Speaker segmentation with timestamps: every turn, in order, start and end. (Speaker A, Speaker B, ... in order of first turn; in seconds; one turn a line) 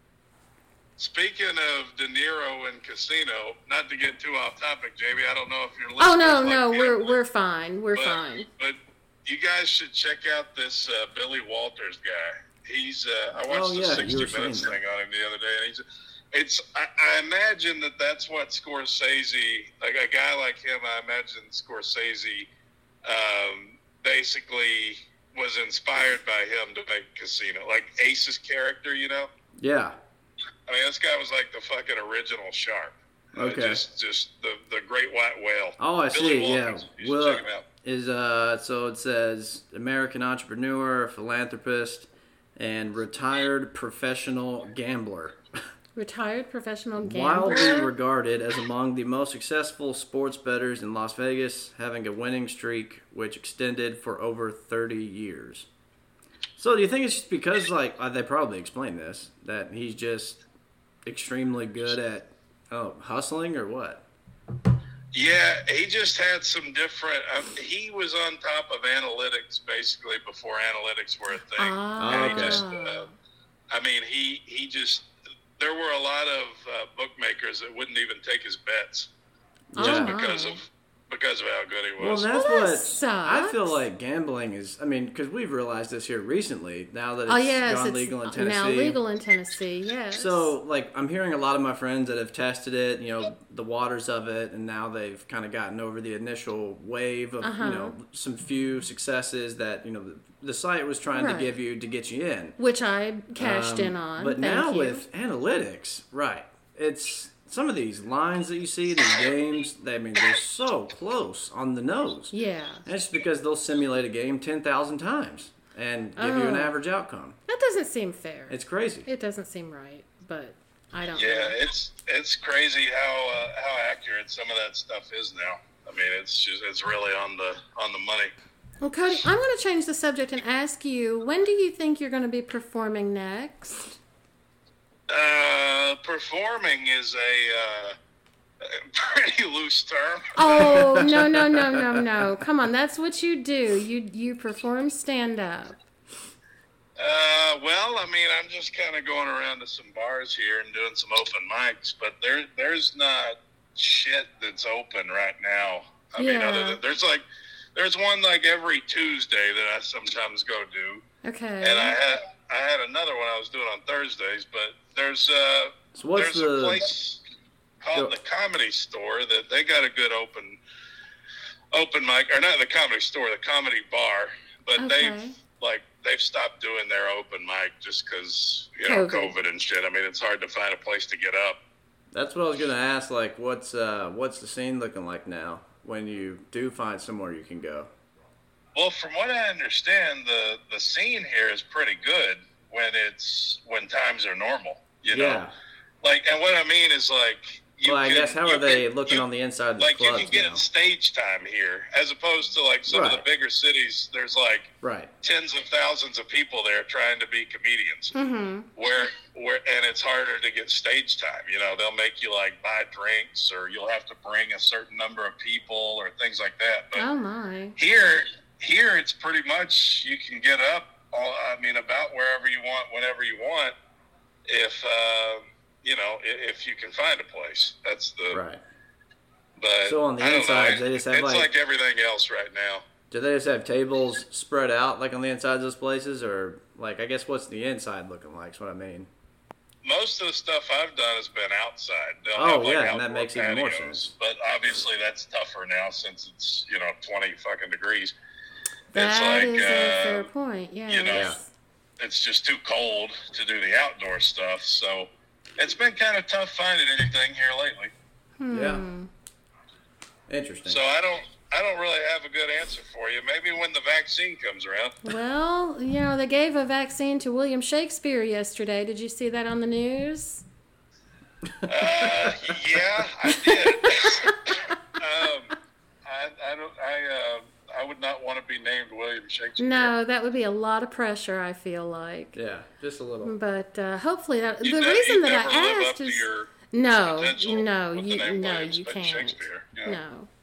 Speaker A: 1.0-7.2
Speaker B: 6.0-8.5
Speaker A: 8.0-22.5
Speaker C: 13.5-14.8
Speaker A: 23.1-29.3
Speaker C: 29.6-30.0
Speaker A: 30.7-37.6
Speaker C: 33.4-33.8
Speaker C: 35.8-45.4
Speaker B: 46.0-47.9
Speaker C: 47.0-55.7
Speaker C: 56.6-60.4
Speaker C: 61.0-64.0
Speaker A: 65.1-73.1
Speaker B: 71.6-73.1
Speaker C: 72.0-72.6
Speaker A: 73.7-75.1
Speaker A: 75.6-79.1
Speaker C: 79.7-80.2
Speaker B: 79.8-80.6
Speaker A: 79.8-82.3
Speaker C: 82.0-89.0
Speaker B: 82.3-83.8
Speaker B: 87.3-90.5
Speaker C: 90.1-102.6
Speaker B: 97.4-98.0
Speaker B: 101.1-101.5
Speaker B: 102.6-105.0
Speaker C: 103.4-117.4
Speaker B: 112.3-112.8
Speaker B: 116.2-116.7
Speaker B: 117.5-121.6
Speaker C: 118.5-119.1
Speaker A: 121.1-128.3
Speaker B: 128.8-134.0
Speaker A: 135.1-137.9
Speaker A: 138.6-140.8
Speaker B: 140.3-145.8
Speaker C: 140.7-142.0
Speaker A: 147.0-157.2
Speaker B: 156.2-156.8
Speaker A: 157.8-161.0
Speaker B: 161.2-162.0
Speaker A: 161.6-167.2
Speaker C: 165.9-166.8
Speaker A: 167.8-170.6
Speaker A: 171.7-181.6
Speaker B: 174.8-175.4
Speaker B: 178.8-179.3
Speaker C: 182.1-187.9
Speaker A: 188.8-195.5
Speaker C: 195.1-195.5
Speaker A: 196.0-199.2
Speaker C: 197.8-200.7
Speaker A: 199.8-208.1
Speaker C: 202.9-203.2
Speaker C: 204.8-205.1
Speaker B: 208.1-208.7
Speaker A: 208.8-217.1
Speaker B: 217.0-217.8
Speaker A: 217.8-223.7
Speaker A: 224.5-228.4
Speaker C: 228.3-228.6
Speaker A: 229.6-232.8
Speaker C: 229.8-231.5
Speaker C: 233.1-239.1
Speaker A: 239.8-248.1
Speaker C: 242.3-244.1
Speaker A: 248.9-250.3
Speaker B: 248.9-251.5
Speaker A: 250.9-251.3
Speaker C: 251.1-251.4
Speaker A: 252.0-257.9
Speaker B: 258.4-259.1
Speaker C: 258.5-258.9
Speaker C: 260.3-260.8
Speaker A: 260.7-265.1
Speaker B: 265.1-270.4
Speaker A: 271.7-279.9
Speaker C: 272.2-272.6
Speaker B: 273.5-274.6
Speaker B: 279.6-282.4
Speaker C: 282.3-283.4
Speaker B: 283.2-290.3
Speaker A: 284.6-290.0